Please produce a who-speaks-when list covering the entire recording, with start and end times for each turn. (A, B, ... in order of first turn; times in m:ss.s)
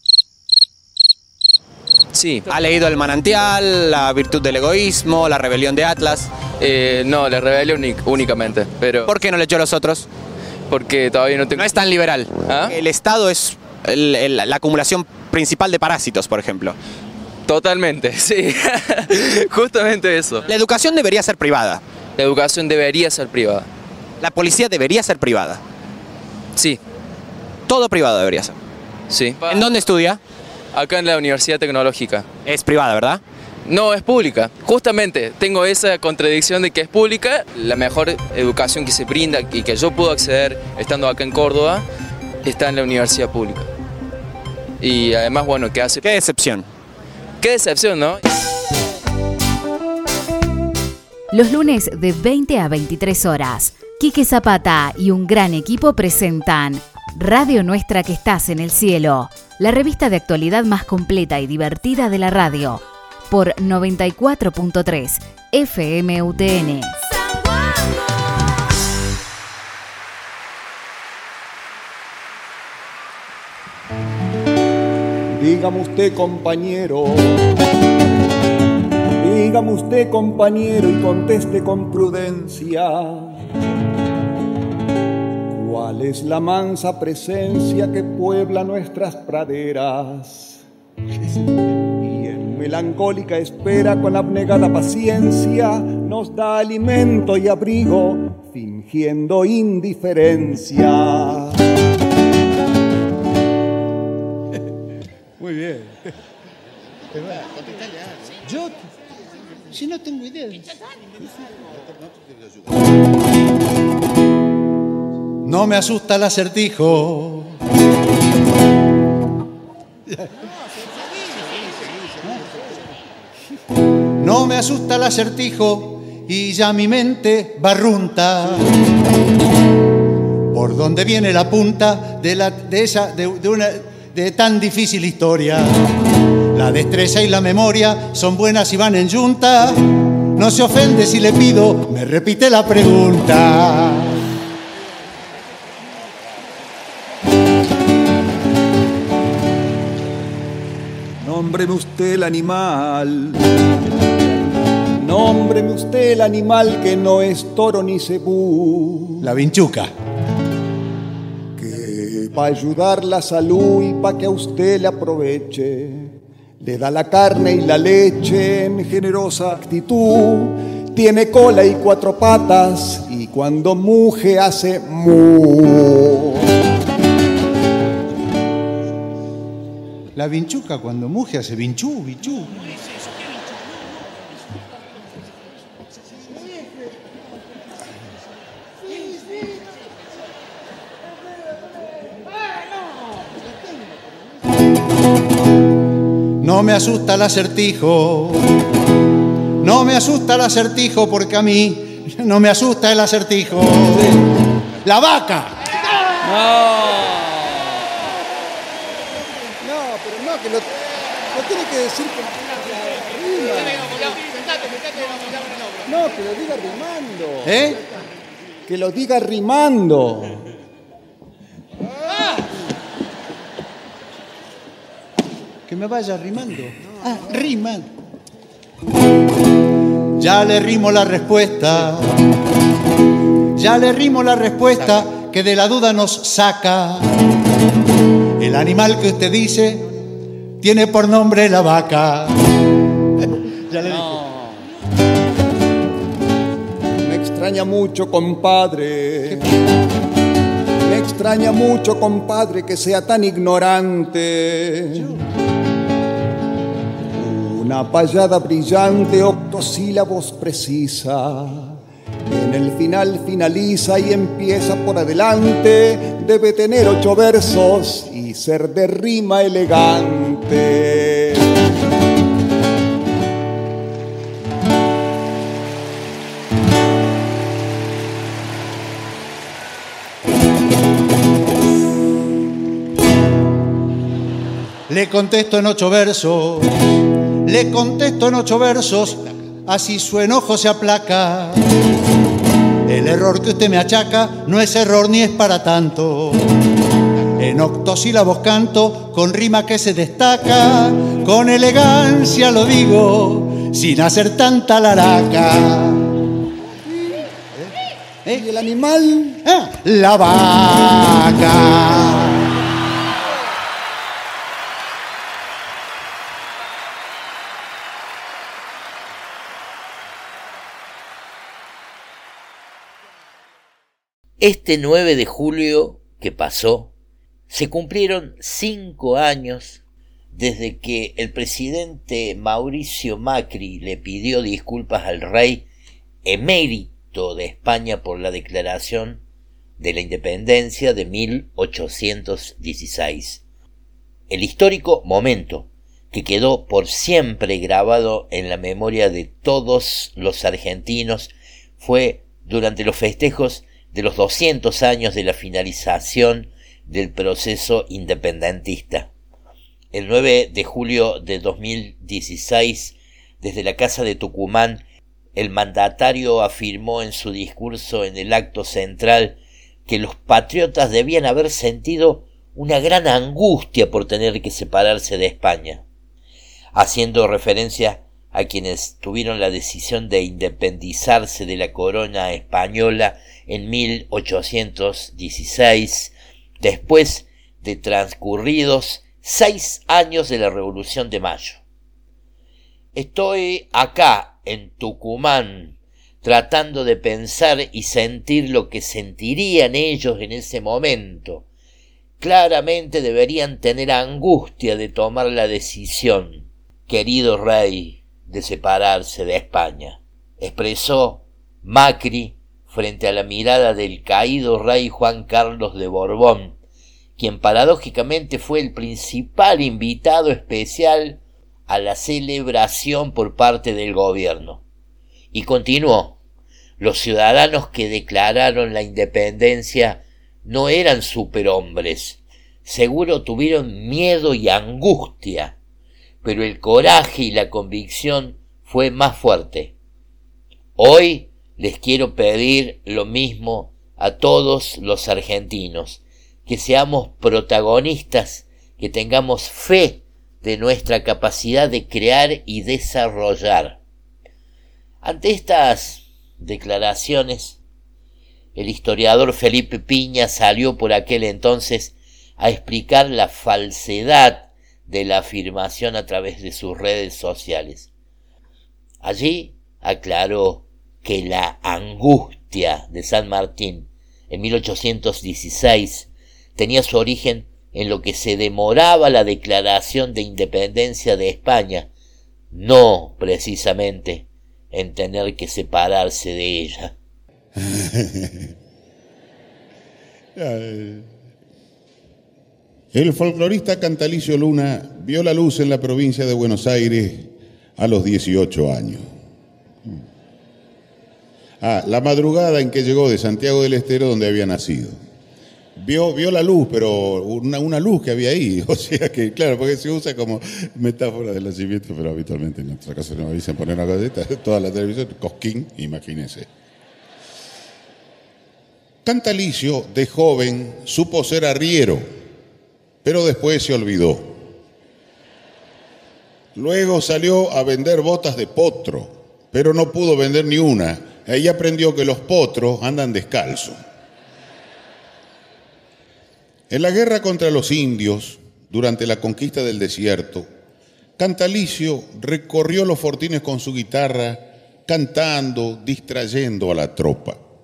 0:02.1-0:02.5 A
0:02.5-0:06.3 B
0:06.6-0:09.1 A
0:09.0-0:10.1 B
0:10.7-0:11.8 A
0:11.5-0:16.8 B
0:12.4-0:12.8 A
0:17.5-0:20.4 A
0:20.5-0:21.8 B
0:22.2-0:23.7 A
0:24.2-0:25.6 B
0:27.7-0:28.6 B
0:29.1-0:29.7 A
0:29.4-0:30.2 B
0:30.7-0:32.2 A
0:32.4-0:33.2 B
0:33.7-0:41.8 A
0:42.4-0:43.7 A
0:44.8-0:46.2 A
0:46.0-0:46.6 B
0:47.4-0:48.2 A
0:51.3-1:07.0 C
1:15.3-1:17.3 D
1:19.2-1:23.4 D
1:25.5-1:30.6 D
1:32.0-1:41.6 D
1:45.4-1:45.8 D
1:47.7-1:48.2 E
1:48.4-1:48.8 F
1:49.7-1:50.7 F
1:55.4-1:57.6 F
2:04.2-2:08.8 F
2:10.5-2:15.7 F
2:16.5-2:24.2 F
2:31.2-2:33.4 D
2:35.0-2:39.3 D
2:39.2-2:39.9 F
2:41.6-2:56.4 D
3:00.1-3:02.6 F
3:16.4-3:18.5 F
3:19.6-3:24.2 F
3:24.8-3:25.6 F
3:26.2-3:27.2 D
3:29.6-3:34.2 D
3:35.8-3:37.8 D
3:37.4-3:37.8 F
3:38.7-3:40.4 D
3:45.7-3:47.9 F
3:50.2-3:52.2 F
3:53.6-3:57.2 F
3:58.4-3:59.9 F
4:00.6-4:02.4 F
4:03.7-4:04.2 F
4:03.9-4:04.5 D
4:07.0-4:09.5 D
4:10.8-4:15.1 D
4:14.9-4:15.2 F
4:17.1-4:31.5 D
4:44.9-4:51.6 F
4:52.8-4:56.5 F
4:57.4-5:06.1 F
5:08.3-5:09.4 D
5:09.4-5:12.5 F
5:24.4-5:26.9 G
5:27.5-5:29.8 G
5:30.3-5:35.6 G
5:36.2-5:39.2 G
5:39.8-5:43.4 G
5:44.3-5:59.1 G
5:59.9-6:04.8 G
6:05.4-6:15.8 G
6:16.7-6:31.6 G
6:32.9-6:41.4 G
6:42.2-6:56.6 G
6:57.2-7:04.6 G
7:05.3-7:06.2 G
7:06.8-7:15.5 G
7:16.2-7:19.7 G
7:20.8-7:33.8 G
7:35.0-7:37.6 G
7:38.6-7:47.9 G
7:49.0-8:01.9 G
8:02.5-8:06.9 G
8:07.6-8:08.5 E
8:10.3-8:11.1 E
8:12.9-8:19.1 E
8:21.6-8:25.0 E
8:25.8-8:36.5 E
8:39.0-8:42.0 E
8:43.0-8:44.4 E
8:46.5-8:53.8 E
8:56.7-9:00.5 E
9:01.2-9:07.4 E